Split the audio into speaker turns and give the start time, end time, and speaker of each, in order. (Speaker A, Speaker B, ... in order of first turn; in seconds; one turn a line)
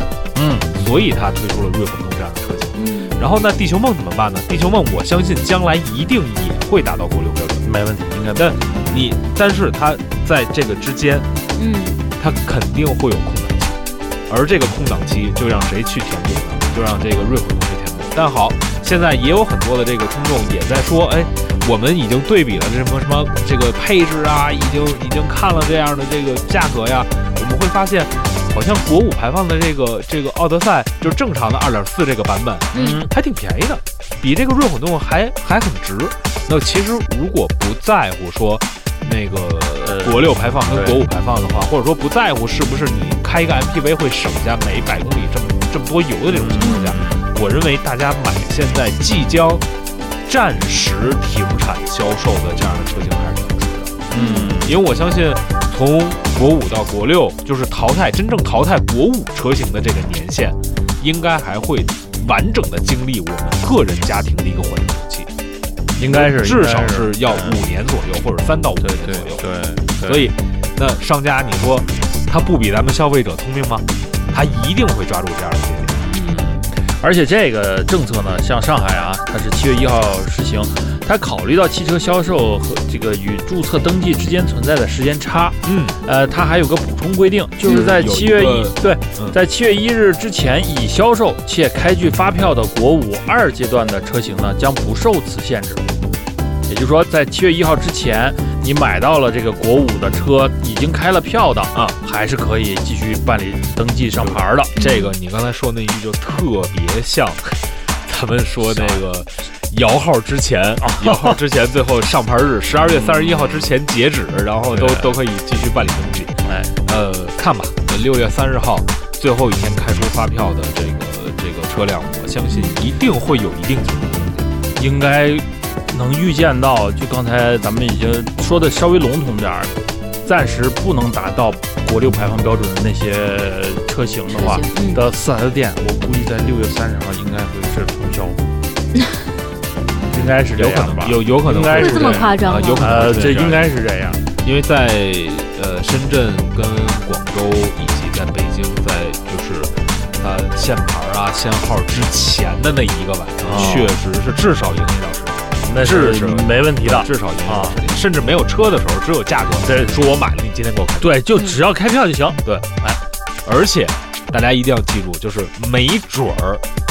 Speaker A: 0.3-0.7
Speaker B: 0.7-7.7
Speaker C: 2.8-3.2
Speaker A: 7.6-8.6
Speaker B: 8.4-11.3
Speaker C: 11.6-12.0
Speaker B: 12.2-49.6
Speaker C: 32.7-33.1
Speaker A: 32.7-33.1
Speaker A: 39.8-41.0
Speaker A: 46.3-47.3
Speaker C: 46.6-46.9
Speaker B: 50.2-65.3
Speaker A: 54.1-54.8
Speaker C: 54.1-54.6
Speaker A: 66.0-67.6
Speaker B: 66.0-69.5
Speaker A: 68.8-70.3
Speaker B: 70.0-76.1
Speaker A: 76.1-95.8
Speaker B: 85.7-86.0
Speaker B: 87.6-89.4
Speaker A: 96.7-104.7
Speaker B: 104.2-124.5
Speaker C: 104.8-105.1
Speaker A: 108.6-109.0
Speaker A: 110.8-111.4
Speaker A: 113.1-113.5
Speaker A: 114.8-115.1
Speaker A: 116.4-116.8
Speaker C: 122.5-122.8
Speaker A: 124.8-129.7
Speaker A: 130.2-138.4
Speaker C: 134.3-135.0
Speaker A: 140.0-144.2
Speaker B: 140.3-143.7
Speaker C: 141.7-143.2
Speaker B: 144.4-161.1
Speaker A: 153.4-154.0
Speaker A: 155.6-157.8
Speaker A: 159.6-160.1
Speaker A: 161.0-163.0
Speaker B: 163.4-166.6